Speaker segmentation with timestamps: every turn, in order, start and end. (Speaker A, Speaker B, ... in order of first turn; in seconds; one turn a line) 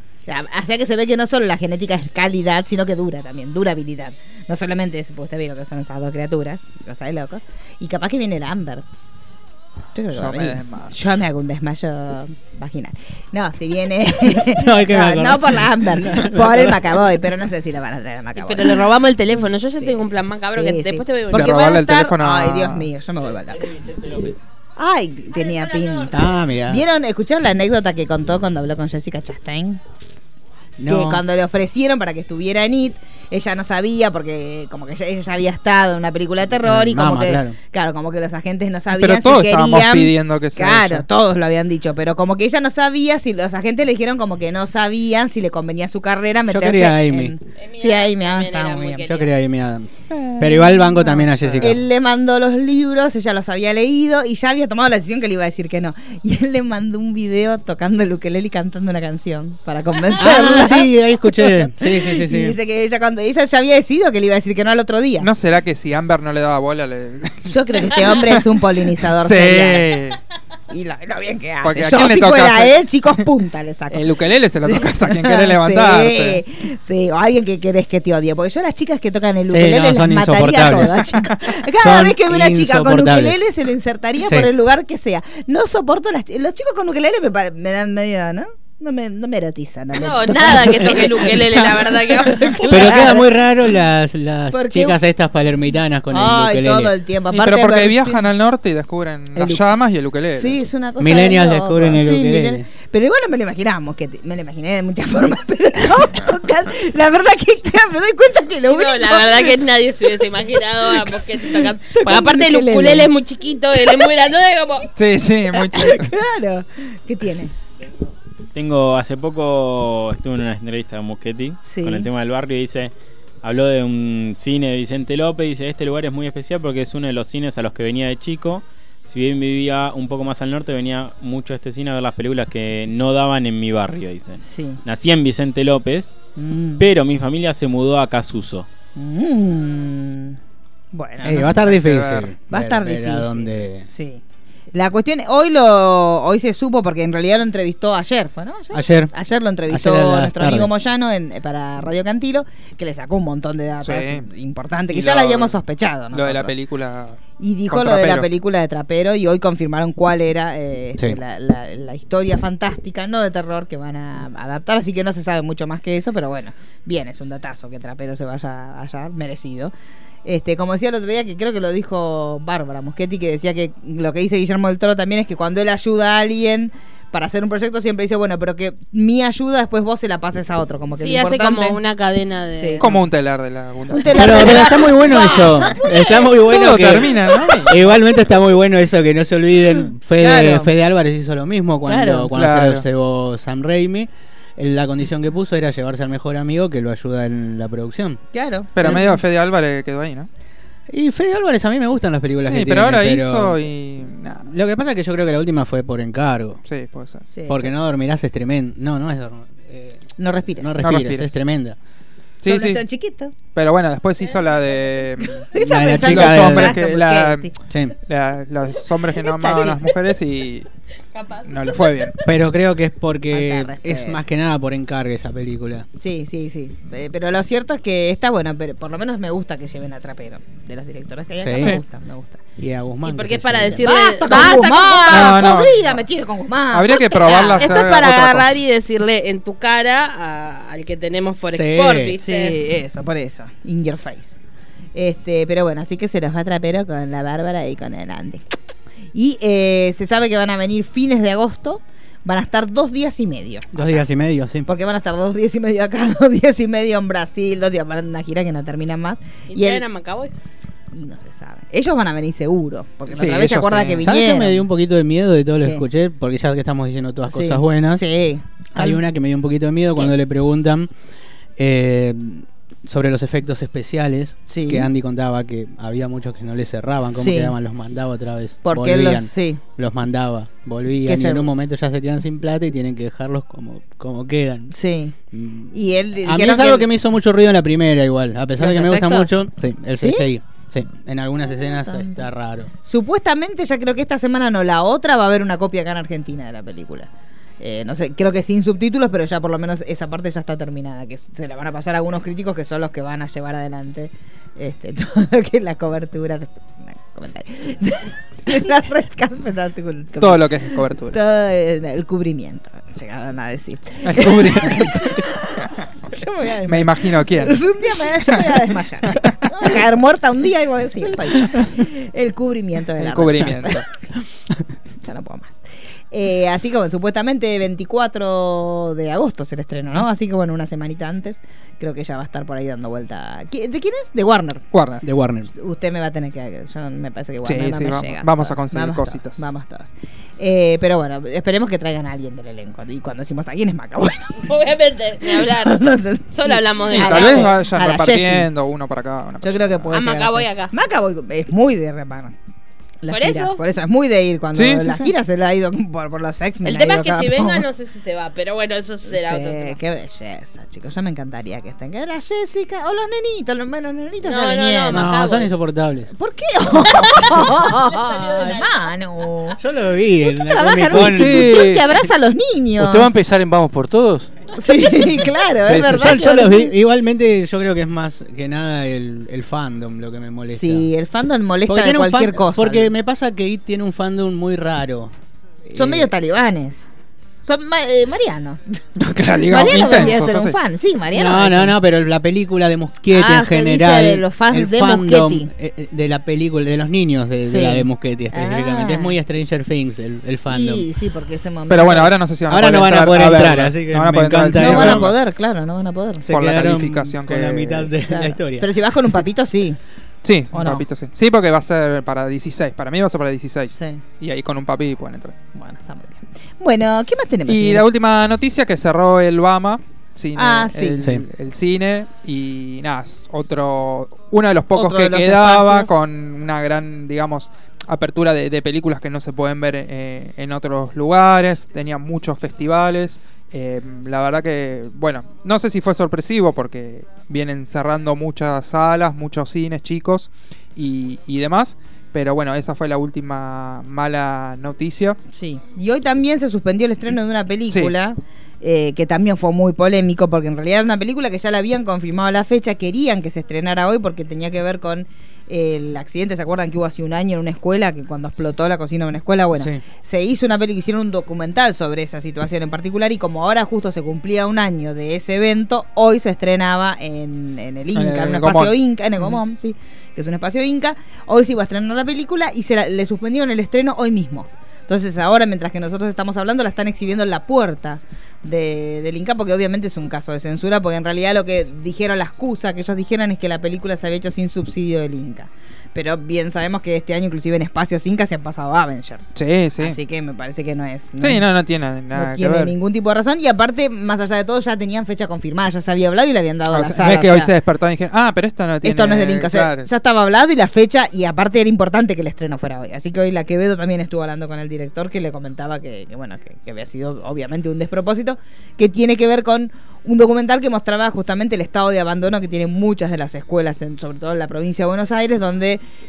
Speaker A: 0.3-8.8
Speaker A: 9.9-18.9
Speaker B: 10.1-10.9
Speaker C: 14.4-17.0
Speaker D: 18.4-21.7
Speaker A: 20.5-23.7
Speaker B: 21.3-22.9
Speaker E: 23.5-24.4
Speaker A: 24.8-29.8
Speaker D: 25.3-26.2
Speaker C: 26.1-26.8
Speaker C: 30.8-31.2
Speaker A: 30.9-49.1
Speaker C: 36.6-37.6
Speaker B: 38.9-41.0
Speaker C: 46.5-47.3
Speaker D: 47.6-49.3
Speaker C: 49.0-51.8
Speaker B: 50.1-51.8
Speaker A: 51.6-65.3
Speaker C: 60.2-62.6
Speaker B: 65.2-68.5
Speaker A: 67.5-69.9
Speaker B: 69.0-70.2
Speaker A: 70.7-74.1
Speaker B: 71.6-72.8
Speaker B: 73.9-76.4
Speaker A: 74.7-93.3
Speaker C: 79.5-81.0
Speaker C: 81.8-83.4
Speaker C: 84.2-84.5
Speaker D: 90.0-93.2
Speaker C: 92.7-96.9
Speaker A: 94.5-95.0
Speaker A: 96.1-98.2
Speaker B: 97.3-100.6
Speaker A: 99.4-99.6
Speaker A: 100.3-113.1
Speaker C: 101.0-102.7
Speaker D: 108.7-114.9
Speaker A: 113.8-114.1
Speaker B: 115.0-116.1
Speaker A: 115.5-117.5
Speaker E: 118.5-136.2
Speaker A: 121.6-122.1
Speaker A: 134.4-134.8
Speaker A: 136.4-136.8
Speaker E: 136.8-138.7
Speaker A: 138.9-140.4
Speaker A: 140.9-141.8
Speaker C: 141.2-143.9
Speaker B: 141.8-142.3
Speaker A: 142.5-144.2
Speaker A: 144.7-156.6
Speaker C: 148.7-149.1
Speaker C: 149.7-150.7
Speaker B: 153.8-154.3
Speaker B: 154.9-155.6
Speaker B: 156.1-158.3
Speaker A: 157.4-169.7
Speaker A: 170.2-181.8
Speaker D: 181.0-182.9
Speaker A: 182.6-183.0
Speaker B: 182.8-184.5
Speaker A: 183.9-187.7
Speaker C: 184.1-198.2
Speaker B: 186.4-187.8
Speaker A: 190.2-190.7
Speaker A: 191.9-192.4
Speaker B: 192.3-192.8
Speaker A: 198.3-199.2
Speaker B: 198.8-200.3
Speaker C: 200.9-203.6
Speaker B: 202.4-204.5
Speaker C: 204.4-206.6
Speaker B: 206.7-207.2
Speaker A: 207.3-207.7
Speaker C: 207.5-210.0
Speaker A: 210.2-210.9
Speaker C: 210.6-211.8
Speaker B: 210.8-211.3
Speaker B: 212.4-212.8
Speaker A: 212.4-213.4
Speaker B: 213.5-217.5
Speaker A: 215.4-217.5
Speaker C: 215.6-216.8
Speaker C: 217.7-217.9
Speaker B: 218.1-220.7
Speaker A: 219.2-219.9
Speaker D: 221.1-222.1
Speaker B: 221.5-222.2
Speaker C: 222.2-225.9
Speaker A: 223.3-224.2
Speaker A: 226.0-232.4
Speaker C: 231.4-231.8
Speaker C: 232.6-234.1
Speaker D: 233.1-235.4
Speaker A: 233.8-238.2
Speaker B: 235.1-235.9
Speaker B: 236.7-238.6
Speaker D: 237.2-242.6
Speaker C: 241.5-242.2
Speaker A: 242.2-244.4
Speaker A: 244.9-248.4
Speaker A: 249.1-254.1
Speaker C: 253.7-254.7
Speaker A: 254.7-259.9
Speaker D: 259.5-260.3
Speaker A: 260.9-264.6
Speaker B: 263.1-264.1
Speaker C: 264.0-268.0
Speaker A: 267.3-269.0
Speaker C: 268.8-270.9
Speaker C: 271.6-284.7
Speaker A: 274.5-274.9
Speaker A: 277.2-277.6
Speaker A: 278.6-279.6
Speaker A: 281.1-281.5
Speaker A: 284.7-285.2
Speaker C: 285.3-292.7
Speaker A: 285.7-286.9
Speaker A: 288.6-289.3
Speaker A: 290.0-290.3
Speaker A: 291.6-292.2
Speaker A: 292.9-297.1
Speaker A: 297.6-315.5
Speaker B: 310.2-311.2
Speaker B: 314.0-315.2
Speaker A: 316.1-323.8
Speaker B: 316.6-317.6
Speaker B: 319.1-319.4
Speaker B: 323.0-323.8
Speaker A: 325.0-334.7
Speaker B: 334.7-335.0
Speaker C: 335.0-335.5
Speaker A: 335.5-344.4
Speaker B: 337.4-339.5
Speaker D: 344.4-345.8
Speaker A: 345.2-348.5
Speaker D: 346.3-347.5
Speaker B: 346.9-349.9
Speaker A: 349.4-352.4
Speaker D: 349.9-350.7
Speaker A: 353.0-357.7
Speaker D: 353.1-353.6
Speaker B: 354.5-355.1
Speaker D: 356.6-359.8
Speaker A: 359.1-365.1
Speaker D: 364.2-365.5
Speaker C: 364.9-366.1
Speaker A: 366.1-369.6
Speaker D: 368.1-368.6
Speaker C: 369.6-371.7
Speaker A: 370.2-373.1
Speaker F: 370.9-371.9
Speaker F: 372.8-374.3
Speaker A: 374.5-376.7
Speaker C: 375.6-380.9
Speaker A: 380.5-382.9
Speaker C: 381.7-385.1
Speaker C: 385.7-386.1
Speaker A: 385.7-386.9
Speaker A: 387.4-388.8
Speaker B: 389.0-390.6
Speaker A: 389.5-391.8
Speaker C: 391.1-400.9
Speaker A: 393.1-395.5
Speaker A: 397.4-399.1
Speaker A: 400.5-402.2
Speaker B: 401.7-405.2
Speaker C: 402.5-405.1
Speaker A: 404.6-406.3
Speaker C: 406.2-408.7
Speaker B: 406.3-407.9
Speaker A: 408.1-409.8
Speaker B: 410.2-415.4
Speaker A: 410.5-410.9
Speaker A: 413.7-414.0
Speaker A: 415.5-417.9
Speaker B: 417.5-445.2
Speaker A: 420.4-421.1
Speaker C: 421.0-421.2
Speaker A: 424.8-426.0
Speaker A: 445.3-491.5
Speaker C: 459.6-459.8
Speaker B: 467.9-468.8
Speaker B: 489.4-490.0
Speaker B: 491.2-492.8
Speaker A: 492.1-497.5
Speaker B: 496.7-499.9
Speaker A: 498.8-515.8